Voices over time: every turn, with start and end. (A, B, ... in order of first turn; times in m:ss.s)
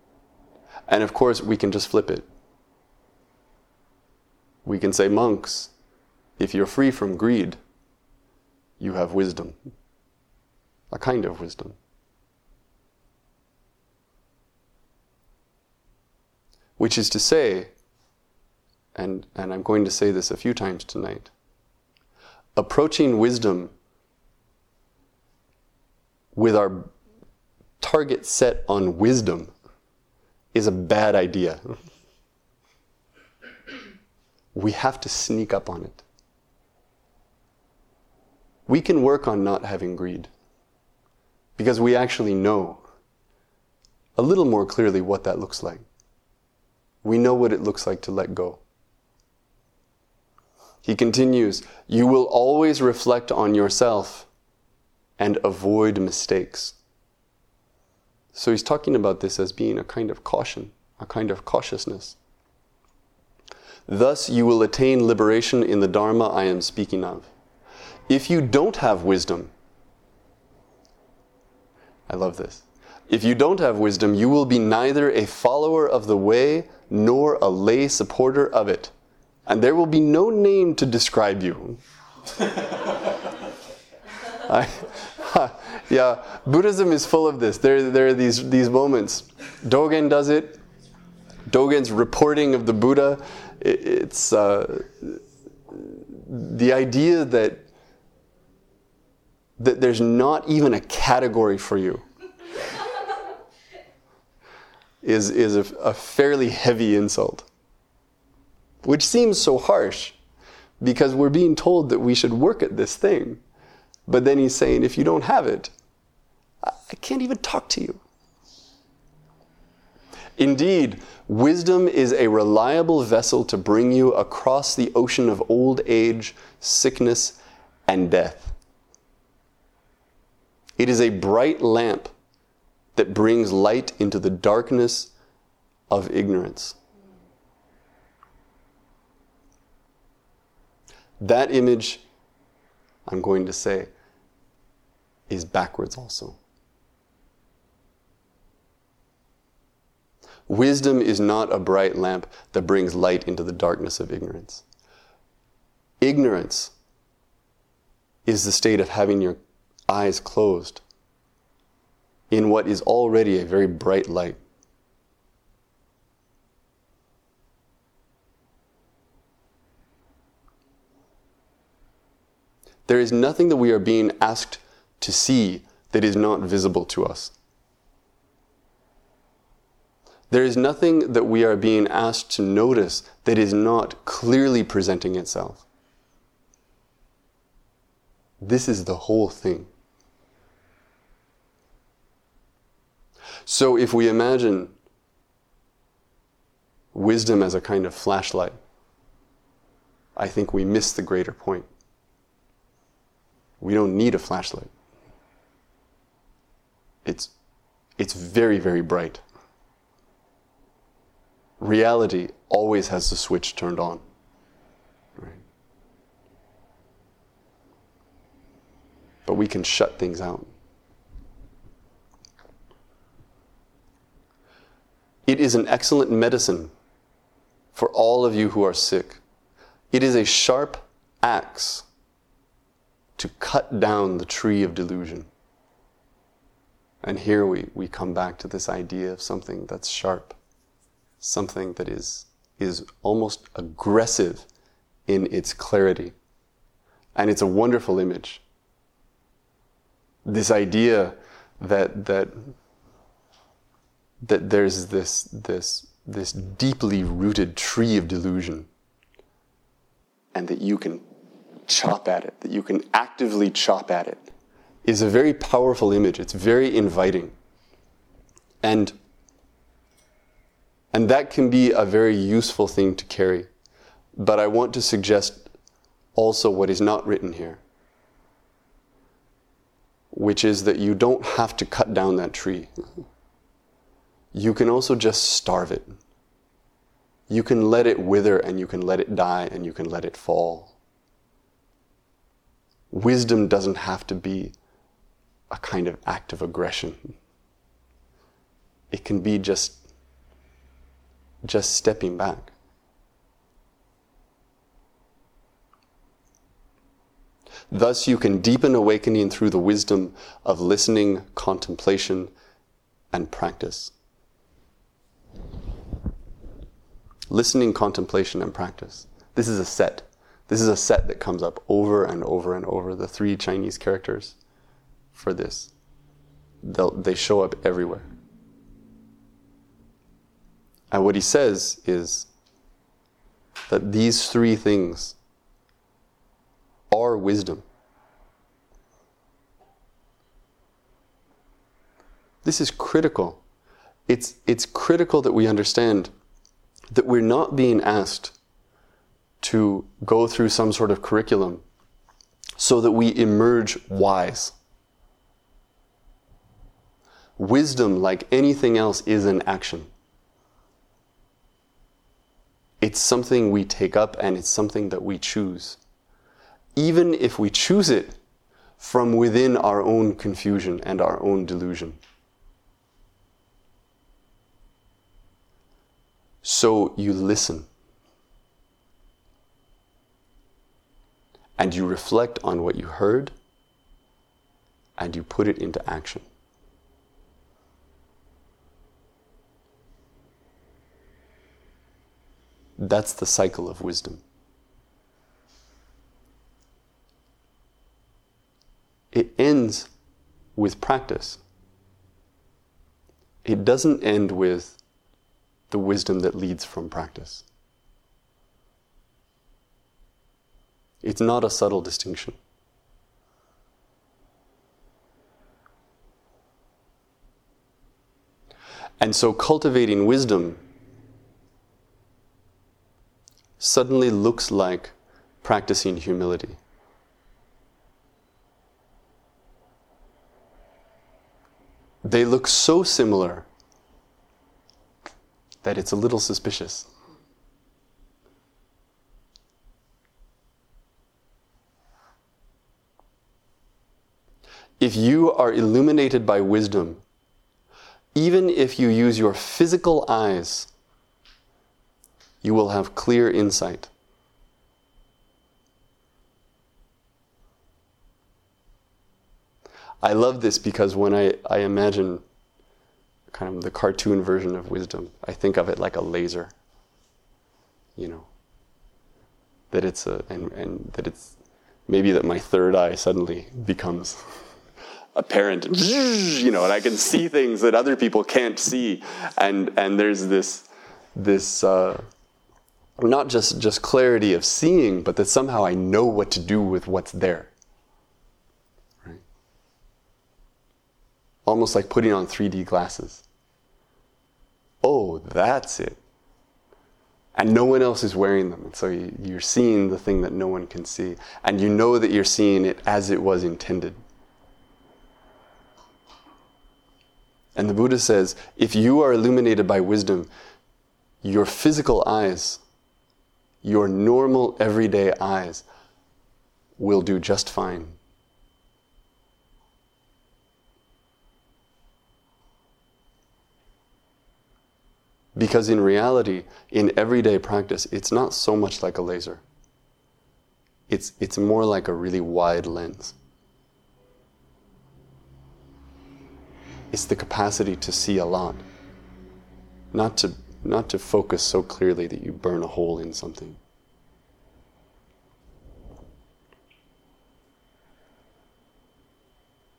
0:00.9-0:02.3 A
0:04.6-0:05.7 A
0:06.4-0:07.6 A
0:08.8-0:09.6 A
0:10.9-0:11.8 A
0:16.8-0:17.7 A
0:19.0-0:21.3 A
0:22.6-0:23.7 A
0:26.4-0:26.9 A
0:27.8-0:29.5 A
0:30.5-0:31.6 A
0:34.5-0:36.0 A
0:38.7-0:40.3 A
0:41.6-0:42.8 A
0:44.2-0:45.8 A
0:47.0-0:48.6 A
0:50.8-0:54.3 A
0:55.2-0:56.8 A
0:58.3-1:02.2 A
1:03.9-1:07.3 A
1:08.1-1:09.5 A
1:12.1-1:18.9 A
1:19.5-1:21.8 A
1:24.4-1:30.6 A
1:31.5-1:37.6 A
1:39.6-1:42.0 A
1:45.0-1:47.5 A
1:48.8-1:50.2 A
1:50.8-1:53.4 A
1:54.1-1:55.7 A
1:56.6-1:58.0 A
2:00.4-2:08.5 A
2:10.8-2:12.1 A
2:13.0-2:15.1 A
2:15.9-2:16.8 A
2:21.2-2:22.0 A
2:23.1-2:23.9 A
2:25.3-2:26.4 A
2:30.5-2:34.6 A
2:36.0-2:36.7 A
2:38.2-2:39.4 A
2:39.9-2:40.8 A
2:42.3-2:44.4 A
2:52.9-2:57.3 A
3:00.3-3:05.6 A
3:08.4-3:09.7 A
3:13.4-3:14.7 A
3:16.9-3:18.6 A
3:20.2-3:21.7 A
3:23.6-3:24.7 A
3:27.0-3:27.3 A
3:28.0-3:29.2 A
3:31.6-3:34.0 A
3:39.2-3:40.5 A
3:45.3-3:46.7 A
3:47.8-3:49.2 A
3:49.9-3:51.9 A
3:53.2-3:55.3 A
3:57.0-4:00.4 A
4:01.2-4:04.5 A
4:05.1-4:06.1 A
4:07.2-4:08.4 A
4:10.2-4:12.5 A
4:14.2-4:18.7 A
4:20.3-4:21.0 A
4:21.7-4:24.3 A
4:24.8-4:27.3 A
4:28.6-4:28.9 A
4:30.9-4:33.5 A
4:34.2-4:35.5 A
4:36.1-4:37.6 A
4:40.1-4:42.7 A
4:44.3-4:45.9 A
4:47.3-4:50.8 A
4:52.9-4:54.6 A
4:55.5-4:57.1 A
4:58.9-4:59.8 A
5:01.4-5:02.5 A
5:07.7-5:12.3 A
5:13.1-5:13.9 A
5:17.3-5:24.4 A
5:25.1-5:25.7 A
5:26.6-5:28.1 A
5:30.9-5:32.3 A
5:33.7-5:35.2 A
5:36.9-5:37.6 A
5:42.4-5:43.4 A
5:44.1-5:46.1 A
5:46.9-5:48.3 A
5:49.4-5:51.6 A
5:52.6-5:54.6 A
5:57.4-5:59.9 A
6:02.8-6:05.8 A
6:06.8-6:08.2 A
6:08.8-6:12.0 A
6:16.4-6:17.7 A
6:21.6-6:23.3 A
6:25.0-6:26.2 A
6:32.8-6:34.2 A
6:39.1-6:39.9 A
6:40.6-6:41.4 A
6:43.4-6:44.8 A
6:45.7-6:47.4 A
6:51.0-6:52.4 A
6:59.0-7:00.6 A
7:03.6-7:06.6 A
7:12.0-7:13.5 A
7:15.6-7:16.9 A
7:24.8-7:27.0 A
7:28.1-7:30.7 A
7:32.4-7:33.9 A
7:40.0-7:42.2 A
7:43.3-7:46.5 A
7:48.0-7:48.3 A
7:49.7-7:51.3 A
7:51.9-7:54.2 A
7:55.2-8:02.0 A
8:03.0-8:07.5 A
8:11.5-8:13.2 A
8:14.8-8:16.0 A
8:17.4-8:24.0 A
8:27.6-8:30.3 A
8:31.2-8:32.6 A
8:33.6-8:35.6 A
8:36.8-8:38.0 A
8:45.4-8:49.4 A
8:50.9-8:53.2 A
8:56.9-8:58.6 A
8:59.9-9:03.6 A